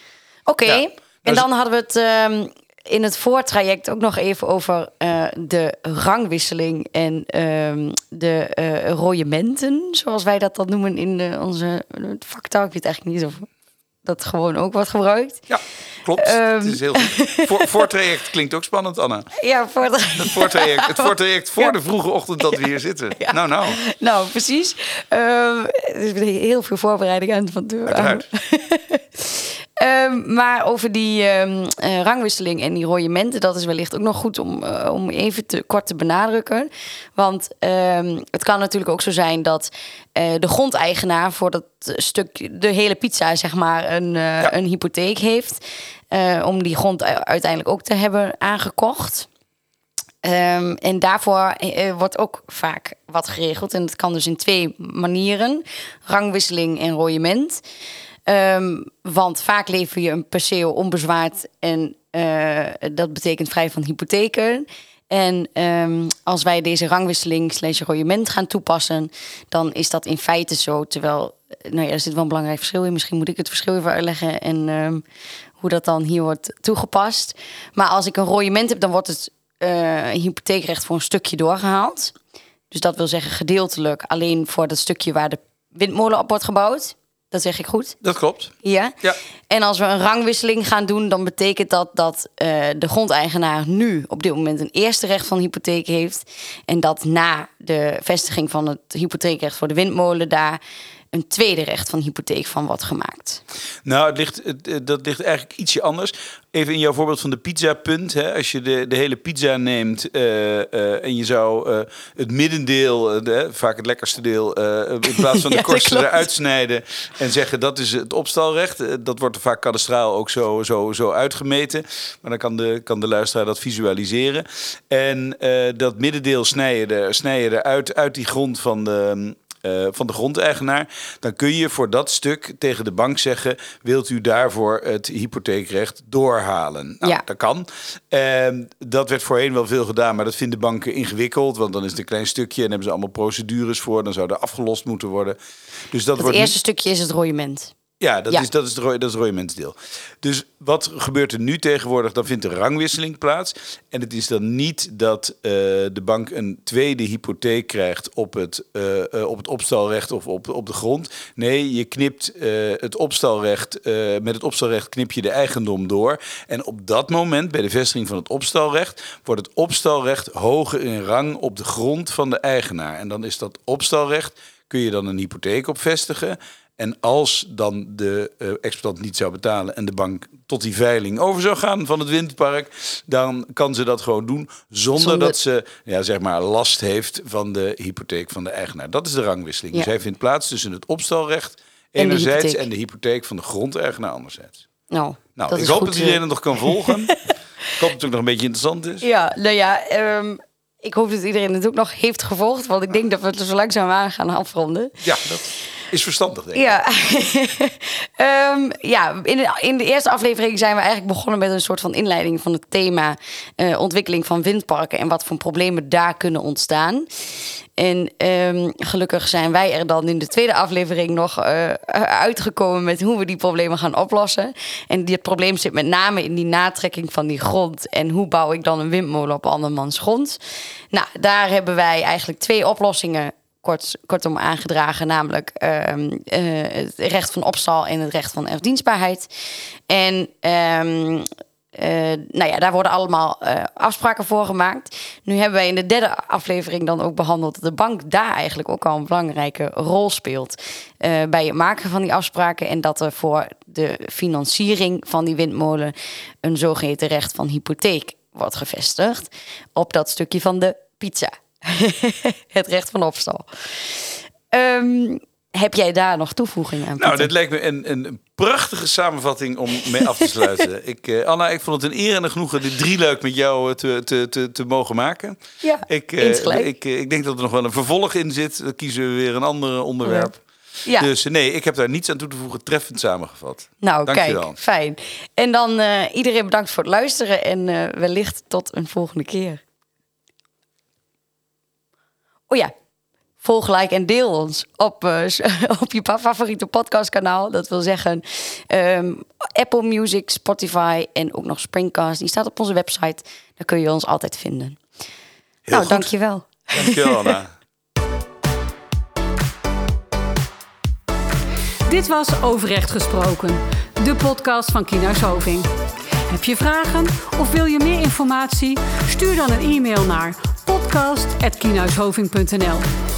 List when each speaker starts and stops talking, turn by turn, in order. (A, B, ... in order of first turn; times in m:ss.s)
0:00.5-0:13.5 A
0:00.6-0:01.5 B
0:14.0-0:15.4 A
0:15.5-0:19.3 B
0:16.2-0:17.7 A
0:19.4-0:21.7 A
0:20.2-0:23.8 B
0:23.2-0:49.3 A
0:27.9-0:28.3 B
0:50.2-0:57.6 A
0:58.3-1:15.0 A
1:15.6-1:22.2 A
1:22.7-1:28.0 A
1:28.0-1:29.2 B
1:28.6-1:40.6 A
1:41.1-1:43.4 A
1:43.8-2:25.4 B
1:55.1-1:56.3 A
2:25.9-2:26.6 B
2:26.2-2:27.7 A
2:28.0-3:14.6 B
3:05.0-3:05.4 A
3:12.0-3:12.7 A
3:14.9-3:17.2 A
3:15.4-3:17.2 B
3:17.7-3:19.0 B
3:19.0-3:25.0 A
3:25.0-3:26.8 B
3:26.5-3:37.1 A
3:37.8-3:50.4 A
3:50.9-3:59.3 A
3:59.9-4:27.3 A
4:27.0-4:40.4 B
4:35.6-4:36.7 A
4:40.0-4:40.3 A
4:41.0-4:44.6 B
4:43.8-4:49.6 A
4:53.4-5:04.8 A
5:05.7-5:06.1 B
5:05.7-5:07.4 A
5:06.7-5:07.5 B
5:11.9-5:15.7 C
5:16.3-5:22.9 C